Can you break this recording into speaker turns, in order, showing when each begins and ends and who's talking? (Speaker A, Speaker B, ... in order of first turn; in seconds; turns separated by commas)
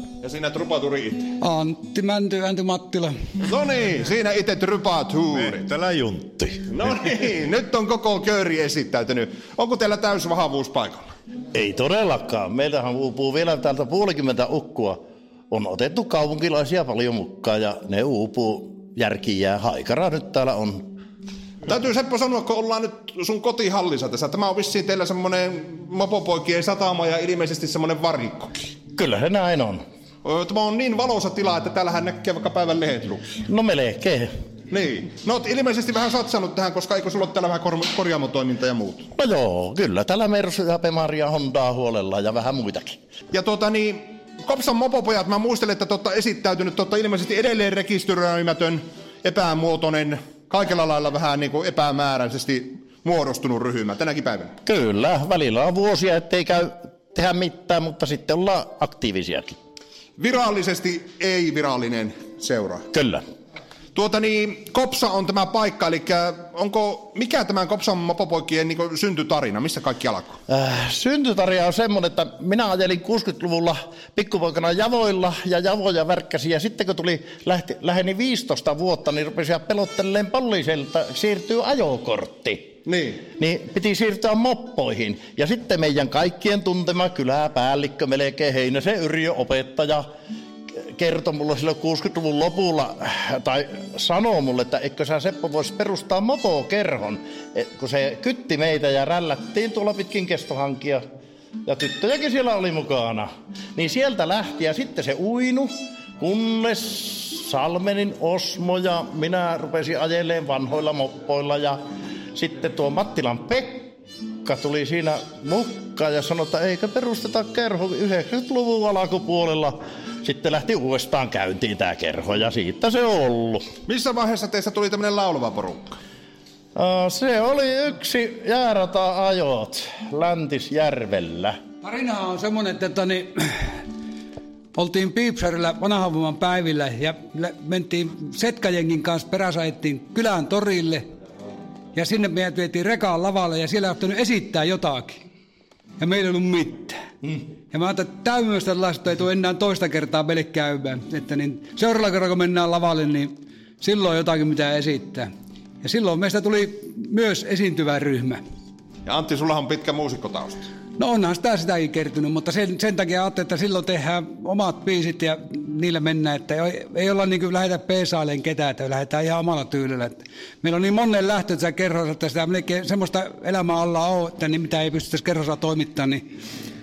Speaker A: 0.2-1.3, Speaker B: 1.4-3.1, Speaker A: 3.5-5.7, Speaker C: 5.7-6.4, Speaker A: 6.6-11.1, Speaker C: 11.5-15.0, Speaker C: 15.5-20.9, Speaker A: 21.6-28.5, Speaker C: 28.9-29.8, Speaker A: 30.2-33.4, Speaker C: 33.5-34.2, Speaker A: 34.7-39.1, Speaker C: 39.1-43.0, Speaker A: 43.3-54.5, Speaker C: 54.6-59.5, Speaker A: 60.2-62.9, Speaker C: 62.9-63.2, Speaker A: 63.9-70.3, Speaker C: 70.5-82.7, Speaker A: 82.8-83.2, Speaker C: 83.3-90.0, Speaker C: 90.8-101.0, Speaker C: 101.7-111.8, Speaker C: 112.3-113.9, Speaker C: 114.4-123.7, Speaker A: 123.9-126.0, Speaker C: 126.8-131.6, Speaker B: 131.8-133.7, Speaker B: 134.7-141.0, Speaker B: 141.9-145.2, Speaker B: 146.0-147.0, Speaker B: 147.7-155.3, Speaker B: 155.8-158.4, Speaker A: 159.1-160.6, Speaker B: 161.0-176.2